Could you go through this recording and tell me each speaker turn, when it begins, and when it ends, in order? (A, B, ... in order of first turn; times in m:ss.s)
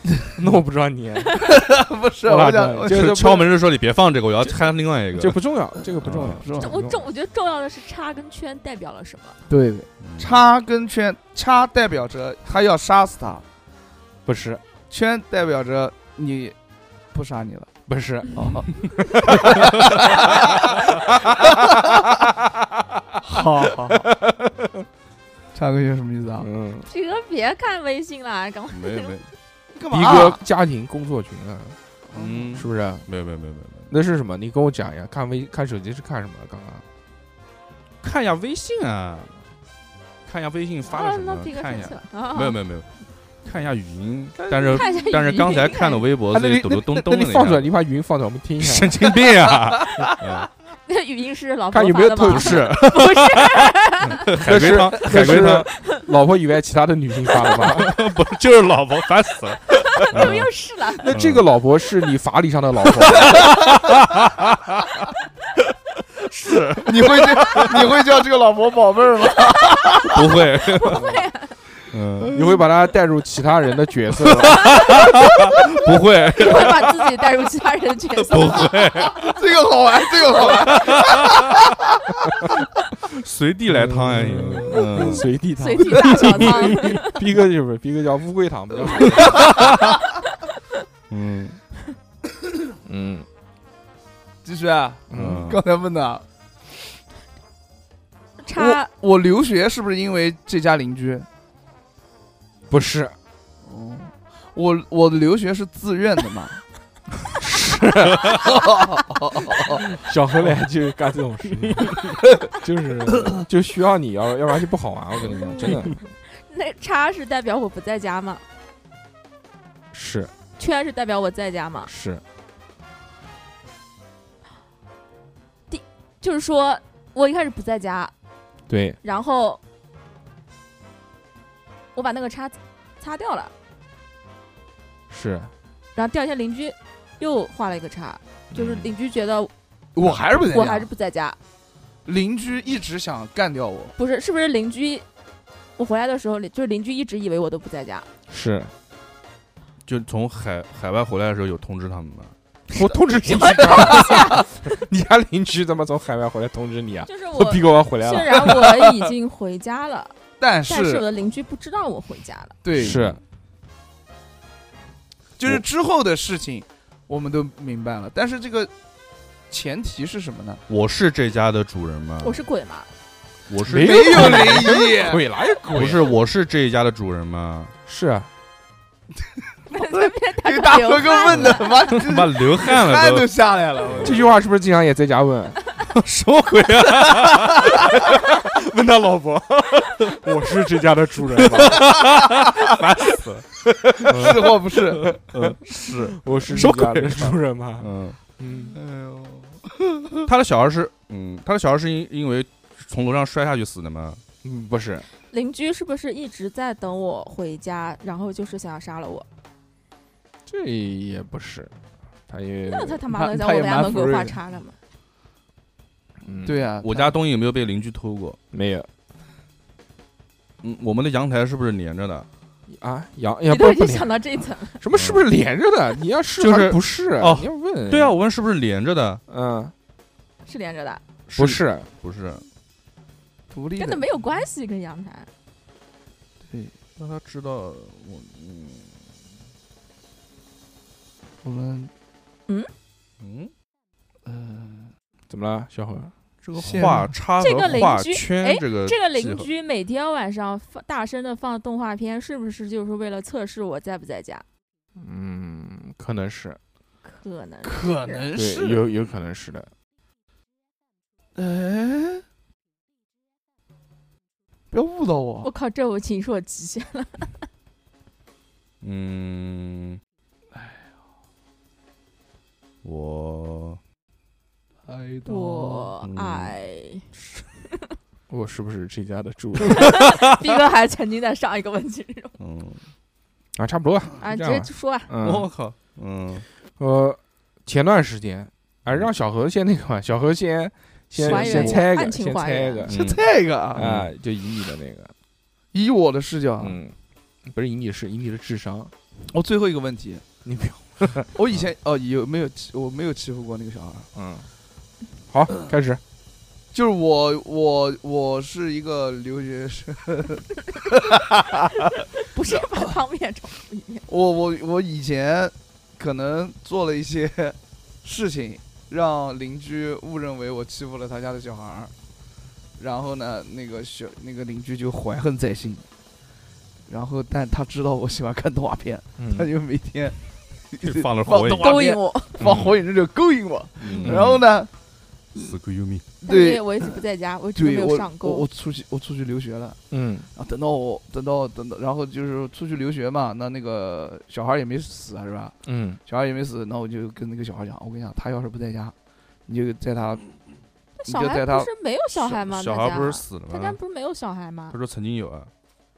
0:00.4-0:01.4 A
0:01.3-0:03.4 B
0:02.2-0:03.5 A
0:02.9-0:05.4 C
0:05.1-0:07.0 A
0:06.0-0:06.4 C
0:06.0-0:06.8 B
0:06.5-0:09.4 D
0:09.5-0:13.4 B
0:10.0-0:10.4 C
0:14.2-0:14.6 A
0:14.9-0:16.6 B
0:17.1-0:17.7 B
0:17.9-0:20.2 A
0:18.3-0:18.7 B
0:19.2-0:22.1 B
0:19.7-0:20.1 C
0:21.2-0:21.6 A
0:23.2-0:24.1 B
0:23.6-0:24.8 A
0:25.5-0:26.5 B
0:26.4-0:26.9 A
0:26.8-0:29.1 D
0:28.7-0:29.3 C
0:29.7-0:30.4 B
0:29.9-0:31.8 A
0:32.1-0:32.6 B
0:32.1-0:33.9 C
0:32.6-0:33.1 A
0:33.9-0:36.8 A
0:38.0-0:39.4 C
0:40.2-0:42.9 C
0:40.8-0:42.6 D
0:43.4-0:47.7 C
0:44.7-0:46.0 D
0:46.3-0:49.1 A
0:48.6-0:50.5 C
0:49.4-0:50.0 B
0:50.8-0:54.3 D
0:51.7-0:52.9 A
0:52.2-0:55.7 C
0:54.4-0:57.9 A
0:55.8-0:56.0 D
0:57.5-1:00.5 C
0:59.8-1:01.1 D
1:00.1-1:00.4 A
1:01.0-1:03.6 A
1:01.1-1:01.4 C
1:03.0-1:05.0 C
1:06.1-1:07.9 C
1:06.8-1:10.2 B
1:09.7-1:10.0 D
1:10.1-1:11.1 C
1:10.7-1:11.6 D
1:11.9-1:12.3 C
1:12.2-1:12.6 B
1:12.3-1:15.0 A
1:14.3-1:16.9 C
1:14.7-1:15.0 D
1:16.4-1:18.7 D
1:18.2-1:19.3 C
1:19.0-1:22.3 B
1:20.3-1:21.7 C
1:23.1-1:25.2 C
1:23.7-1:29.5 A
1:25.0-1:25.2 B
1:25.6-1:27.2 D
1:26.0-1:26.4 B
1:28.9-1:29.8 B
1:29.2-1:29.6 C
1:31.1-1:31.6 C
1:32.8-1:33.2 A
1:34.4-1:36.2 B
1:35.1-1:35.4 A
1:35.1-1:35.6 C
1:38.4-1:38.9 D
1:38.5-1:41.3 B
1:42.7-1:43.1 A
1:43.6-1:46.6 B
1:47.4-1:48.5 A
1:48.2-1:50.0 B
1:49.9-1:56.0 A
1:55.3-1:55.8 C
1:55.4-1:58.4 D
1:59.9-2:00.3 A
2:00.6-2:01.9 D
2:01.9-2:02.2 A
2:05.7-2:08.1 D
2:08.7-2:09.0 A
2:09.0-2:09.6 D
2:11.9-2:13.5 D
2:15.1-2:15.5 A
2:15.9-2:19.5 D
2:18.5-2:18.9 A
2:19.9-2:20.9 B
2:20.4-2:21.4 D
2:22.0-2:23.9 B
2:24.0-2:25.0 D
2:25.8-2:28.1 D
2:28.3-2:28.7 A
2:29.8-2:32.3 C
2:32.7-2:34.5 D
2:32.7-2:39.0 A
2:33.6-2:34.2 B
2:37.0-2:40.1 D
2:40.4-2:41.0 B
2:40.7-2:42.6 D
2:42.6-2:43.0 B
2:42.7-2:43.2 A
2:42.7-2:43.2 C
2:45.4-2:48.7 B
2:49.5-2:50.6 B
2:50.7-2:52.4 C
2:52.2-2:52.9 D
2:53.5-2:54.6 C
2:53.6-2:56.1 A
2:53.7-2:55.2 B
2:55.7-2:57.7 C
2:57.8-2:58.3 A
2:59.7-3:04.3 B
2:59.7-3:01.9 D
3:01.3-3:03.3 C
3:03.8-3:04.2 C
3:04.0-3:05.6 A
3:05.9-3:07.8 C
3:07.3-3:07.8 B
3:07.9-3:11.9 A
3:11.4-3:13.5 C
3:11.9-3:12.5 B
3:13.8-3:15.6 A
3:14.0-3:15.1 B
3:14.1-3:14.4 C
3:15.0-3:18.2 C
3:16.2-3:18.8 A
3:18.7-3:20.3 B
3:20.2-3:24.2 C
3:24.4-3:25.1 A
3:25.3-3:29.3 D
3:30.5-3:31.7 A
3:32.3-3:33.0 A
3:32.6-3:34.8 D
3:33.1-3:34.4 B
3:36.2-3:36.6 A
3:36.4-3:37.1 B
3:36.8-3:38.4 C
3:38.5-3:38.9 A
3:40.6-3:42.3 C
3:42.7-3:44.1 A
3:43.5-3:44.8 D
3:44.8-3:48.1 A
3:44.9-3:45.2 C
3:46.4-3:49.2 C
3:49.3-3:49.7 A
3:50.4-3:51.0 D
3:51.3-3:52.4 C
3:51.4-3:51.9 A
3:53.5-3:54.0 B
3:53.8-3:55.3 D
3:56.5-3:56.7 B
3:57.0-3:59.0 C
4:01.4-4:01.9 B
4:03.2-4:03.5 C
4:04.2-4:04.9 B
4:05.3-4:06.1 A
4:06.4-4:09.5 C
4:06.5-4:07.1 B
4:07.4-4:14.4 D
4:15.0-4:16.6 A
4:17.0-4:18.2 D
4:17.6-4:18.9 B
4:18.3-4:19.7 A
4:21.4-4:22.2 B
4:24.7-4:25.5 B
4:25.4-4:27.4 D
4:28.8-4:30.0 C
4:30.5-4:30.9 B
4:32.8-4:33.8 C
4:34.8-4:35.9 B
4:35.2-4:37.1 D
4:36.0-4:36.6 C
4:38.3-4:40.0 A
4:39.7-4:42.3 D
4:42.4-4:42.8 C
4:43.6-4:45.5 A
4:44.2-4:45.1 D
4:45.2-4:46.4 C
4:46.8-4:53.0 A
4:51.2-4:52.9 D
4:51.2-4:51.8 B
4:52.9-4:54.1 C
4:52.9-4:53.8 B
4:53.7-4:55.1 A
4:55.7-4:56.8 B
4:56.6-4:56.9 A
4:57.4-4:58.9 A
4:59.3-5:00.2 B
5:00.4-5:01.3 A
5:01.3-5:04.1 B
5:04.1-5:04.4 A
5:05.3-5:06.0 A
5:06.7-5:12.9 B
5:12.2-5:14.1 D
5:14.1-5:21.9 B
5:22.8-5:25.8 B
5:26.9-5:30.2 B
5:29.2-5:29.5 A
5:30.7-5:34.7 B
5:30.8-5:31.8 C
5:31.6-5:32.4 D
5:33.8-5:34.4 C
5:34.0-5:34.4 A
5:35.3-5:36.1 C
5:36.2-5:38.4 D
5:36.2-5:37.0 B
5:37.5-5:39.8 B
5:39.9-5:40.3 A
5:40.3-5:45.5 B
5:45.6-5:46.0 A
5:46.0-5:48.9 B
5:49.5-5:50.2 B
5:51.0-5:54.8 D
5:51.1-5:51.7 B
5:52.3-5:53.8 C
5:54.7-5:55.5 C